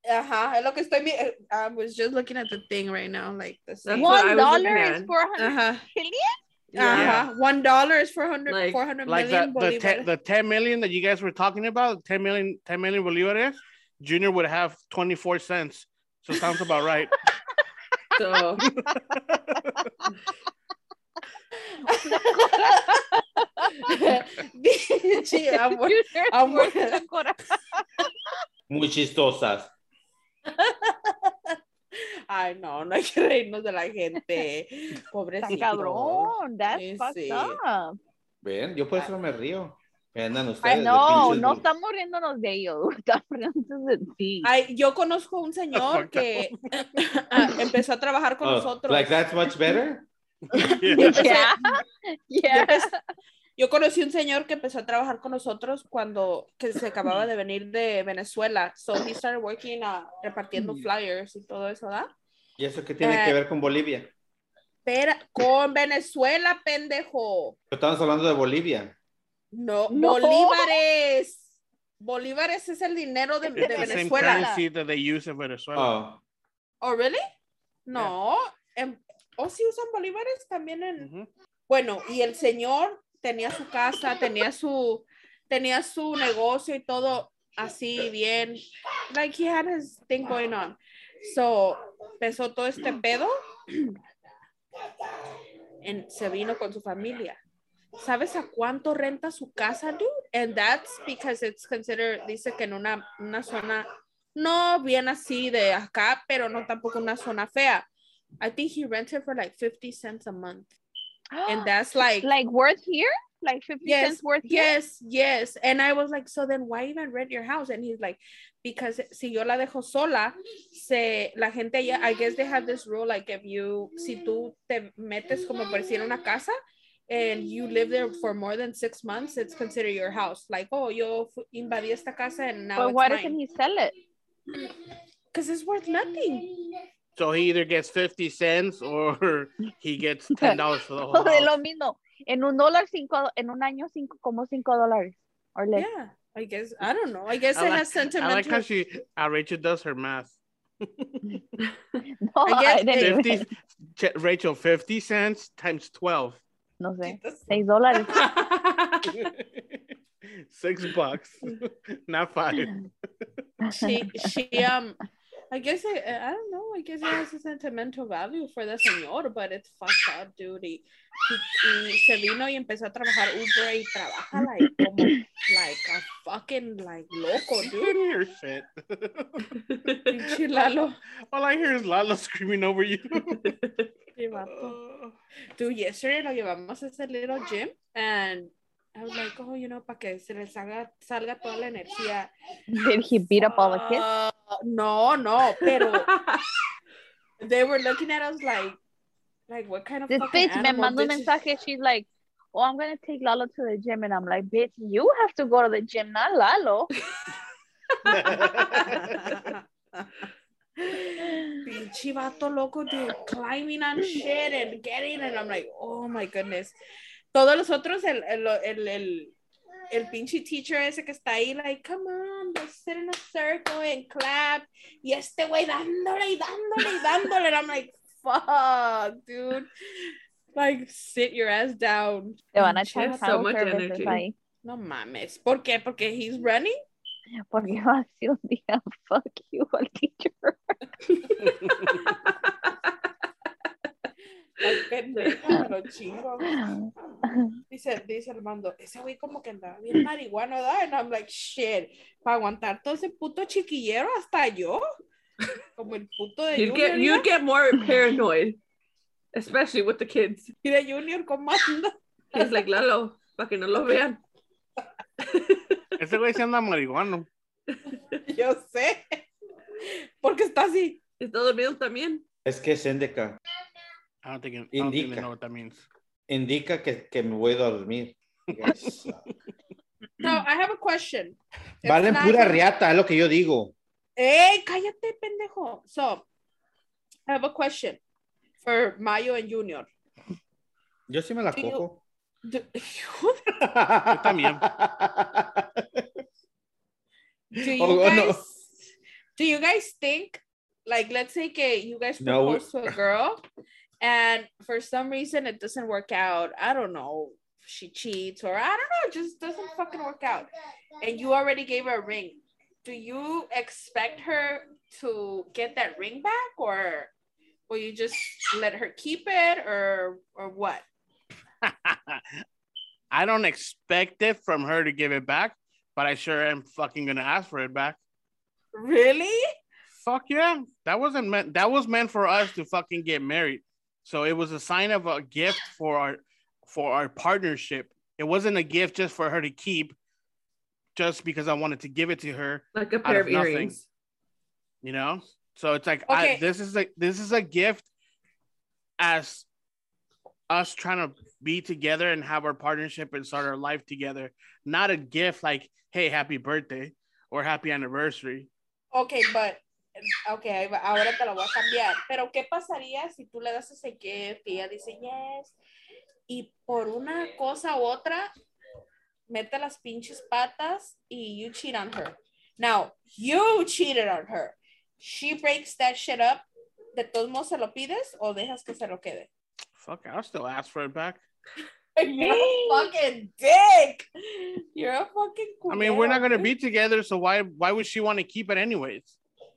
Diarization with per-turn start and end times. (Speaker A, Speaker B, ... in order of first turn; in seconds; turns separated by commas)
Speaker A: 0.1-4.3, Speaker B: 3.8-5.1, Speaker C: 4.0-6.4, Speaker A: 5.4-5.8, Speaker B: 6.7-7.3, Speaker A: 6.8-10.1, Speaker D: 6.9-7.3, Speaker B: 8.5-8.8, Speaker D: 9.1-17.1, Speaker B: 18.2-18.6, Speaker D: 18.6-19.9, Speaker A: 21.9-23.0, Speaker C: 21.9-23.9, Speaker A: 23.8-27.0, Speaker C: 25.5-28.1, Speaker E: 28.7-29.7, Speaker A: 30.5-37.6, Speaker C: 35.4-38.0, Speaker D: 35.6-36.1, Speaker E: 38.4-41.6, Speaker C: 40.6-44.5, Speaker A: 44.4-49.3, Speaker D: 45.7-46.9, Speaker E: 48.4-50.1, Speaker D: 50.5-51.4, Speaker C: 50.5-52.9, Speaker A: 50.7-51.6, Speaker A: 52.5-52.9, Speaker A: 53.6-62.1, Speaker C: 60.6-60.8, Speaker E: 62.6-64.1, Speaker A: 63.0-63.4, Speaker A: 64.9-67.6, Speaker E: 67.7-68.9, Speaker A: 69.5-74.5, Speaker C: 69.9-70.8, Speaker C: 73.4-74.7, Speaker D: 73.6-75.9, Speaker E: 75.8-76.2, Speaker A: 76.8-77.2, Speaker A: 77.9-81.1, Speaker D: 81.0-81.3, Speaker A: 81.7-94.0, Speaker A: 95.8-97.4, Speaker A: 98.0-107.9, Speaker A: 108.4-110.7, Speaker C: 111.3-114.7, Speaker A: 111.5-112.3, Speaker A: 113.8-126.5, Speaker A: 127.1-133.4, Speaker C: 132.8-133.9, Speaker A: 135.3-136.6, Speaker D: 137.2-141.5, Speaker C: 140.4-145.9, Speaker A: 145.8-148.7, Speaker D: 147.5-151.4, Speaker C: 152.2-153.5, Speaker A: 152.4-153.2, Speaker D: 152.9-156.4, Speaker C: 156.8-158.2, Speaker A: 157.0-158.3, Speaker B: 158.1-159.1, Speaker D: 159.0-163.4, Speaker C: 163.7-164.0, Speaker A: 163.7-165.0, Speaker A: 165.5-178.0, Speaker D: 177.6-179.5, Speaker B: 179.6-180.1, Speaker A: 180.1-181.0, Speaker D: 181.3-183.5, Speaker B: 183.3-183.9, Speaker A: 184.2-184.8, Speaker D: 184.3-185.2, Speaker A: 185.6-192.3, Speaker C: 192.7-194.1, Speaker A: 193.4-196.2, Speaker B: 195.6-196.5, Speaker A: 197.4-198.8, Speaker A: 199.5-201.3, Speaker C: 200.1-206.9, Speaker D: 208.1-209.3, Speaker A: 208.1-210.2, Speaker A: 210.8-216.8, Speaker A: 217.3-219.3, Speaker A: 219.9-229.7, Speaker A: 230.6-233.4, Speaker C: 232.5-234.3, Speaker B: 232.6-234.2, Speaker A: 234.0-236.7, Speaker C: 237.5-240.7, Speaker B: 241.1-242.7, Speaker D: 241.5-241.9, Speaker A: 244.6-246.7, Speaker B: 244.7-245.5, Speaker C: 246.7-247.5, Speaker A: 247.7-254.8, Speaker A: 255.8-257.3, Speaker B: 256.5-258.6, Speaker B: 259.3-260.5, Speaker A: 260.6-262.4, Speaker B: 262.3-264.2, Speaker B: 265.2-265.8, Speaker D: 266.0-267.3, Speaker B: 267.7-267.9, Speaker A: 268.3-269.2, Speaker A: 269.8-271.0, Speaker B: 271.2-272.2, Speaker E: 272.4-273.4, Speaker D: 274.2-275.9, Speaker E: 274.7-275.3, Speaker E: 276.3-279.2, Speaker D: 278.5-279.1, Speaker A: 280.2-282.6, Speaker E: 281.8-283.7, Speaker A: 284.2-286.2, Speaker A: 287.3-288.0, Speaker A: 288.6-289.9, Speaker E: 291.1-292.0, Speaker A: 291.5-291.8, Speaker A: 292.4-293.6, Speaker E: 293.6-296.1, Speaker D: 294.1-294.6, Speaker E: 297.5-298.4, Speaker A: 297.6-298.8, Speaker A: 299.4-303.4, Speaker E: 302.2-302.9, Speaker A: 304.0-317.1, Speaker A: 317.7-320.8, Speaker D: 321.6-322.4, Speaker D: 323.1-328.0, Speaker A: 328.7-329.4, Speaker D: 329.9-339.9, Speaker D: 340.9-343.8, Speaker B: 342.8-343.8, Speaker D: 344.8-347.9, Speaker A: 346.1-346.4, Speaker D: 349.0-349.5, Speaker D: 350.5-358.5, Speaker A: 358.9-359.6, Speaker A: 360.2-365.6, Speaker A: 366.3-368.3, Speaker A: 369.3-376.4, Speaker A: 376.9-379.3, Speaker D: 379.8-381.2, Speaker A: 382.0-386.5, Speaker C: 382.1-382.9, Speaker D: 385.7-389.2